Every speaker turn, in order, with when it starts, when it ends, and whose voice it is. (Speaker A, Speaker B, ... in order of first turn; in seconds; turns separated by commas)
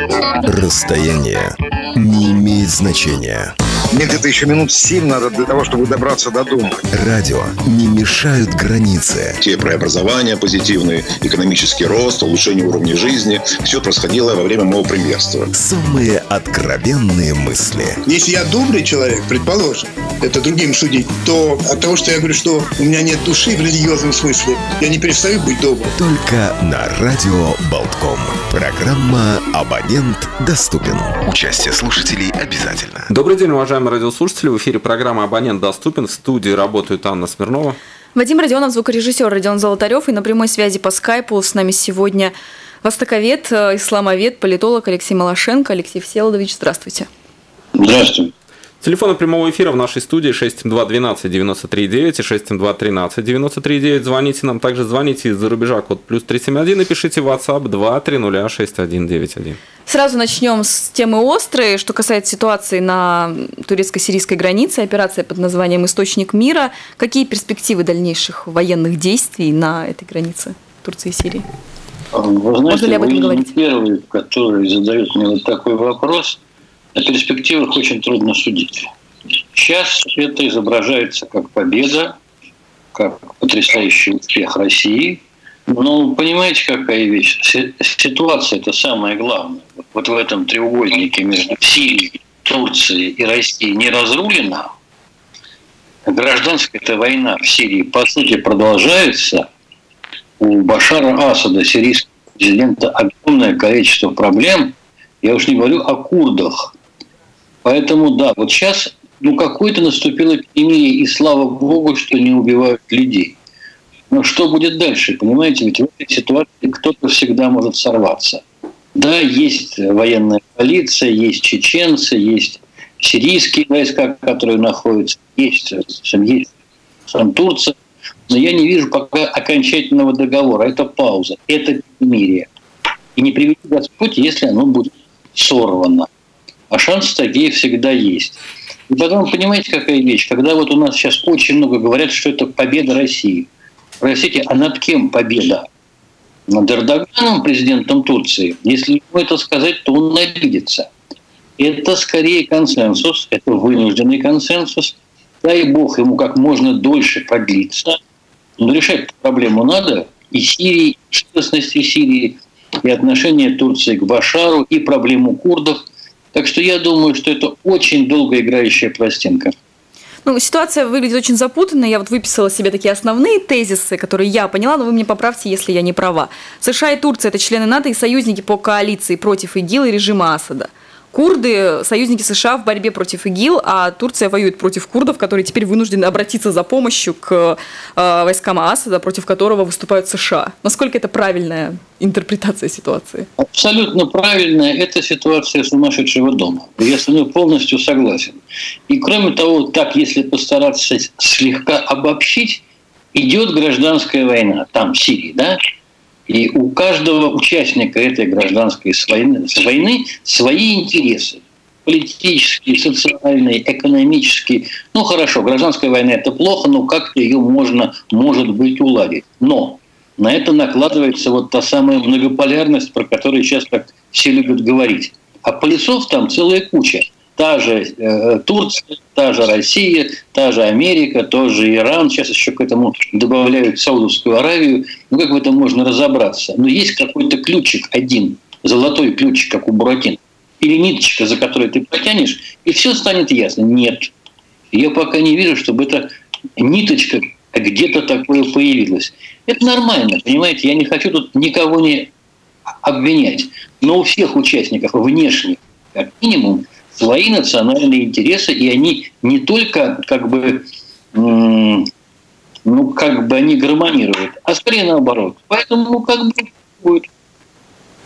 Speaker A: 0.5-3.5, Speaker B: 3.9-6.8, Speaker A: 6.9-9.4, Speaker C: 9.4-15.5, Speaker A: 15.5-18.0, Speaker D: 18.1-25.9, Speaker A: 25.9-33.1, Speaker E: 33.1-37.8, Speaker F: 38.1-47.1, Speaker G: 47.8-48.3, Speaker E: 48.8-59.6, Speaker F: 59.9-71.5, Speaker G: 72.1-76.4, Speaker F: 72.7-73.5, Speaker G: 77.0-78.9, Speaker G: 79.5-82.2, Speaker G: 83.0-94.7, Speaker G: 96.1-99.5, Speaker G: 100.4-106.7, Speaker G: 107.6-113.4, Speaker G: 114.1-118.4, Speaker G: 119.0-126.5, Speaker G: 127.1-127.8, Speaker G: 128.3-132.5, Speaker G: 133.2-136.1, Speaker G: 136.7-143.5, Speaker G: 144.0-145.7, Speaker G: 146.5-150.9, Speaker G: 151.6-158.0, Speaker G: 158.6-169.6, Speaker F: 170.2-193.3, Speaker G: 193.4-205.6, Speaker G: 206.3-244.1, Speaker G: 244.7-252.1, Speaker G: 252.8-261.9, Speaker G: 262.7-267.1